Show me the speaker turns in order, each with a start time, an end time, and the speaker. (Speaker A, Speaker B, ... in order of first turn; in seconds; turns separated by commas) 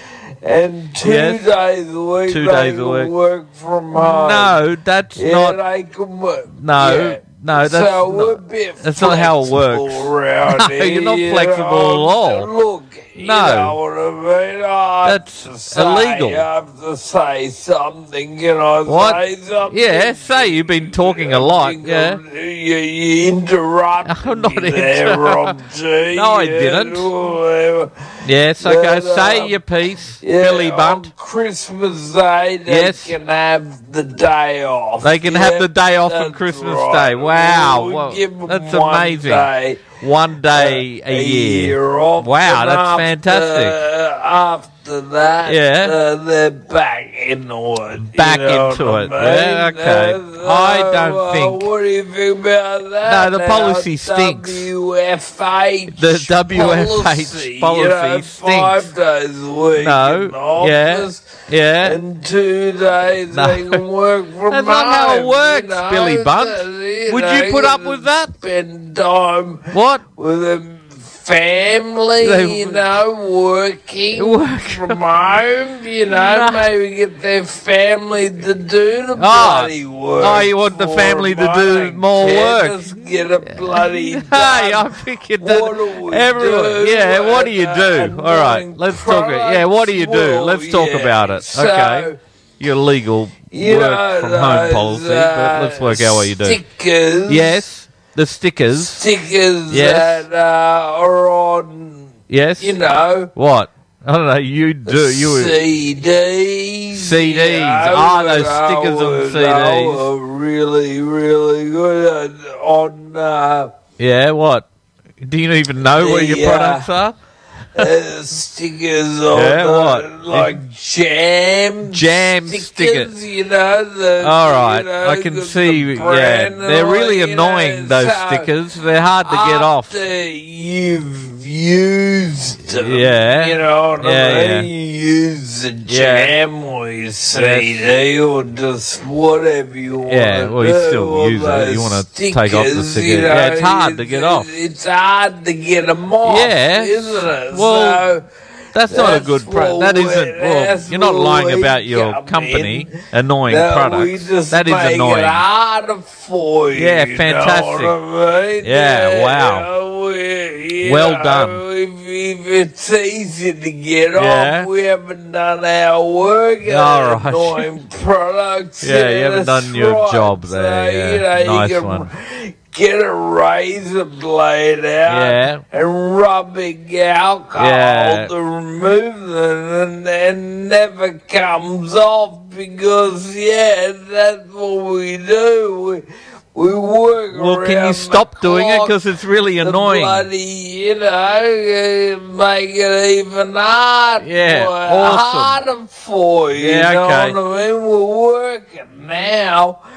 Speaker A: 0.4-4.6, Speaker B: 1.0-1.5, Speaker B: 2.3-3.1, Speaker B: 3.9-5.6, Speaker A: 5.2-27.9, Speaker B: 6.6-12.5, Speaker B: 13.2-13.8, Speaker B: 15.1-16.5, Speaker B: 18.9-22.2, Speaker B: 24.1-25.6, Speaker B: 26.1-27.1, Speaker B: 28.2-31.1, Speaker A: 28.6-29.6, Speaker A: 30.2-39.9, Speaker B: 32.7-33.2, Speaker B: 35.0-43.8, Speaker A: 40.5-92.2, Speaker B: 45.5-46.0, Speaker B: 48.0-51.7, Speaker B: 53.0-54.7, Speaker B: 55.9-58.9, Speaker B: 59.8-62.0, Speaker B: 63.3-63.8, Speaker B: 64.5-68.3, Speaker B: 69.7-70.0, Speaker B: 72.2-72.8, Speaker B: 74.1-75.0, Speaker B: 76.1-76.7, Speaker B: 79.2-96.6, Speaker A: 93.5-97.6, Speaker B: 97.3-99.1, Speaker A: 98.8-103.3, Speaker B: 99.7-100.2, Speaker B: 102.3-102.8, Speaker B: 103.3-105.6, Speaker A: 104.9-113.7, Speaker B: 106.9-110.1, Speaker B: 114.0-114.7, Speaker B: 115.2-117.2, Speaker A: 115.9-116.9, Speaker A: 117.7-128.5, Speaker B: 119.3-120.6, Speaker B: 121.9-123.1, Speaker B: 124.2-130.0, Speaker A: 129.2-148.2, Speaker B: 132.7-134.7, Speaker B: 135.9-136.3, Speaker B: 137.3-137.9, Speaker B: 140.1-144.5, Speaker B: 146.2-148.1, Speaker B: 148.7-155.4, Speaker A: 148.9-188.9, Speaker B: 156.8-157.9, Speaker B: 158.6-159.7, Speaker B: 160.8-161.6, Speaker B: 164.2-164.7, Speaker B: 166.7-167.7, Speaker B: 168.8-172.1, Speaker B: 175.1-175.6, Speaker B: 177.6-178.3, Speaker B: 187.3-190.3, Speaker A: 189.6-199.8, Speaker B: 194.2-195.6, Speaker B: 196.5-197.4